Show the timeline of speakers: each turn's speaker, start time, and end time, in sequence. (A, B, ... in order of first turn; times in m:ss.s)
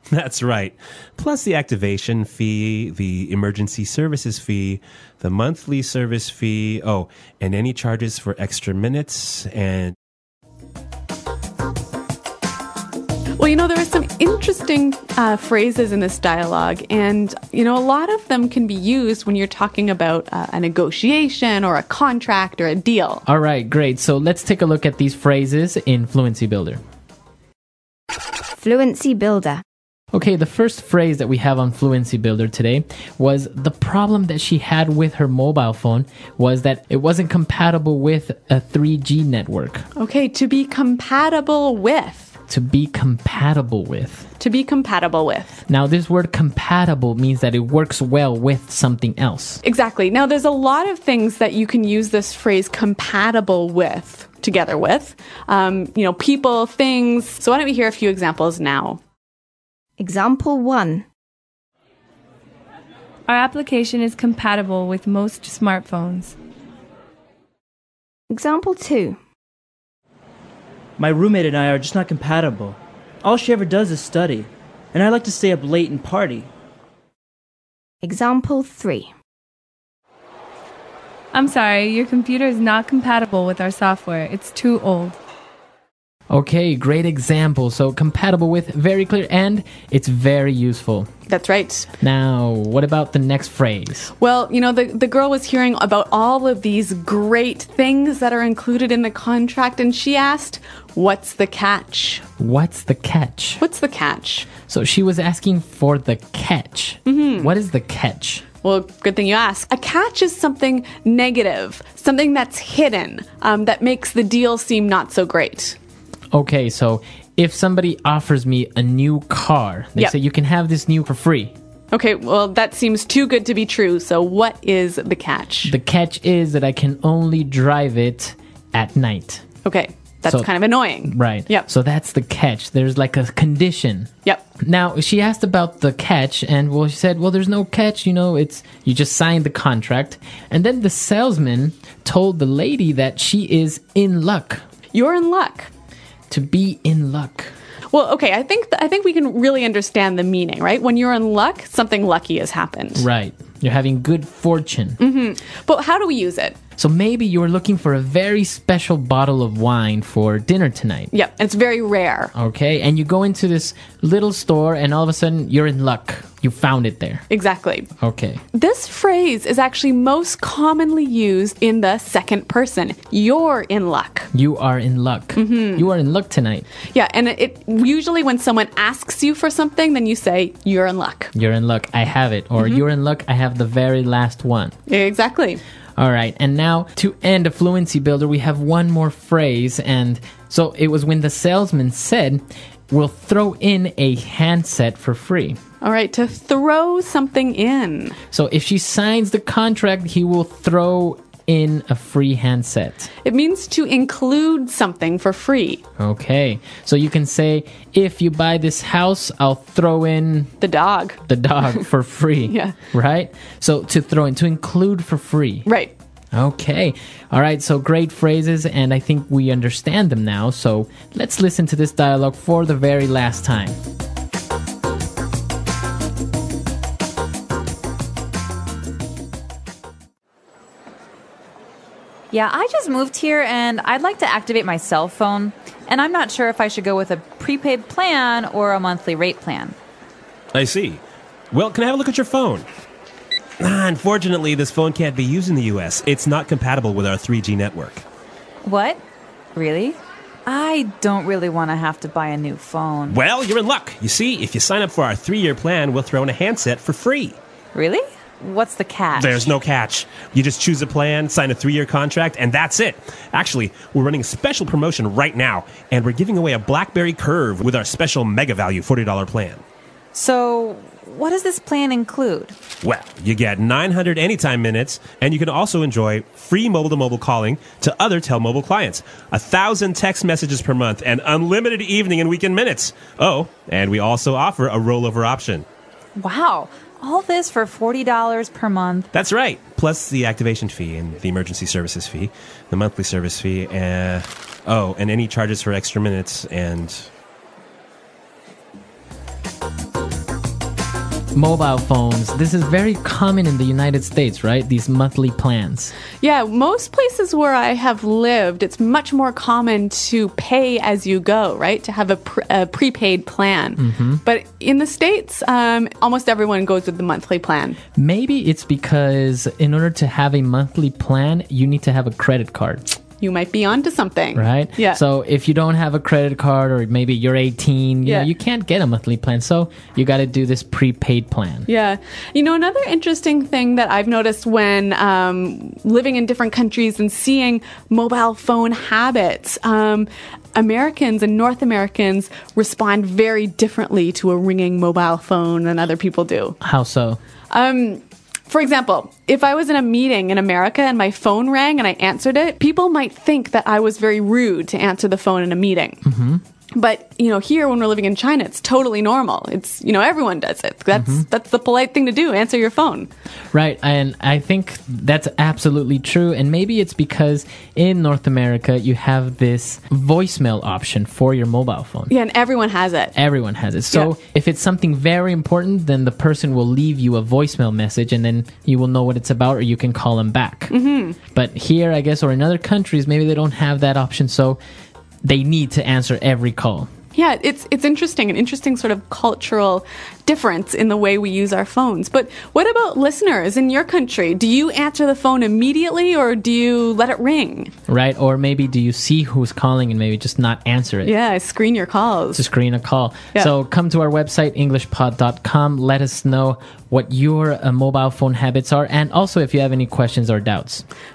0:00.1-0:10.0 A
0:13.4-0:23.2 B
0:23.2-0:26.8 C
0:28.5-0:29.6 D
0:30.1-0:39.9 C
0:40.0-0:42.4 B
0:42.5-0:44.3 C
0:44.4-0:45.6 B
0:45.7-0:49.6 C
0:49.6-0:59.0 B
1:00.0-1:01.0 D
1:03.3-1:06.4 E
1:08.3-1:09.2 D
1:11.0-1:16.5 F
1:18.0-1:19.1 D
1:21.4-1:25.1 E
1:26.3-1:31.1 C
1:31.3-1:31.9 B
1:32.0-1:34.1 C
1:34.2-1:42.2 B
1:42.4-1:43.6 C
1:43.6-1:44.5 B
1:44.5-1:48.4 C
1:47.0-1:47.5 B
1:48.6-1:55.8 B
1:56.3-2:01.5 C
2:01.9-2:05.7 B
2:05.6-2:09.5 C
2:09.6-2:11.7 B
2:10.2-2:10.5 C
2:11.0-2:24.6 C
2:24.9-2:25.7 B
2:26.3-2:27.5 C
2:27.9-2:33.0 B
2:33.0-2:35.0 C
2:35.0-2:36.6 B
2:36.8-2:41.1 C
2:41.1-2:42.3 B
2:42.3-2:47.2 C
2:47.3-2:47.9 B
2:48.0-2:48.4 C
2:48.5-2:54.3 B
2:54.3-2:56.7 C
2:55.4-2:55.9 B
2:56.9-3:01.3 B
3:01.3-3:04.8 C
3:04.9-3:05.6 B
3:06.0-3:15.6 C
3:15.8-3:18.2 B
3:18.3-3:23.1 C
3:23.2-3:25.8 B
3:26.0-3:30.6 C
3:30.6-3:31.2 B
3:31.2-3:35.6 C
3:36.3-3:43.8 C
3:52.3-3:59.8 G
4:00.5-4:02.7 A
4:03.6-4:08.0 A
4:08.6-4:09.0 G
4:09.5-4:13.2 G
4:13.1-4:17.4 A
4:17.7-4:19.5 G
4:19.2-4:29.6 A
4:30.1-4:32.5 G
4:32.8-4:45.7 A
4:46.2-4:49.1 G
4:49.1-4:57.1 A
5:01.4-5:05.9 C
5:06.2-5:17.8 B
5:13.8-5:14.2 C
5:18.0-5:22.9 C
5:23.2-5:25.0 B
5:24.4-5:31.7 C
5:31.7-5:46.6 B
5:46.6-5:47.2 C
5:47.5-5:56.0 B
5:56.0-5:56.4 C
5:56.7-6:03.1 B
6:00.9-6:01.2 C
6:03.5-6:12.1 C
6:12.1-6:13.1 B
6:13.1-6:24.6 C
6:20.7-6:21.2 B
6:25.2-6:26.9 C
6:27.1-6:37.7 B
6:37.9-6:41.1 C
6:41.0-6:42.4 B
6:42.3-6:50.8 C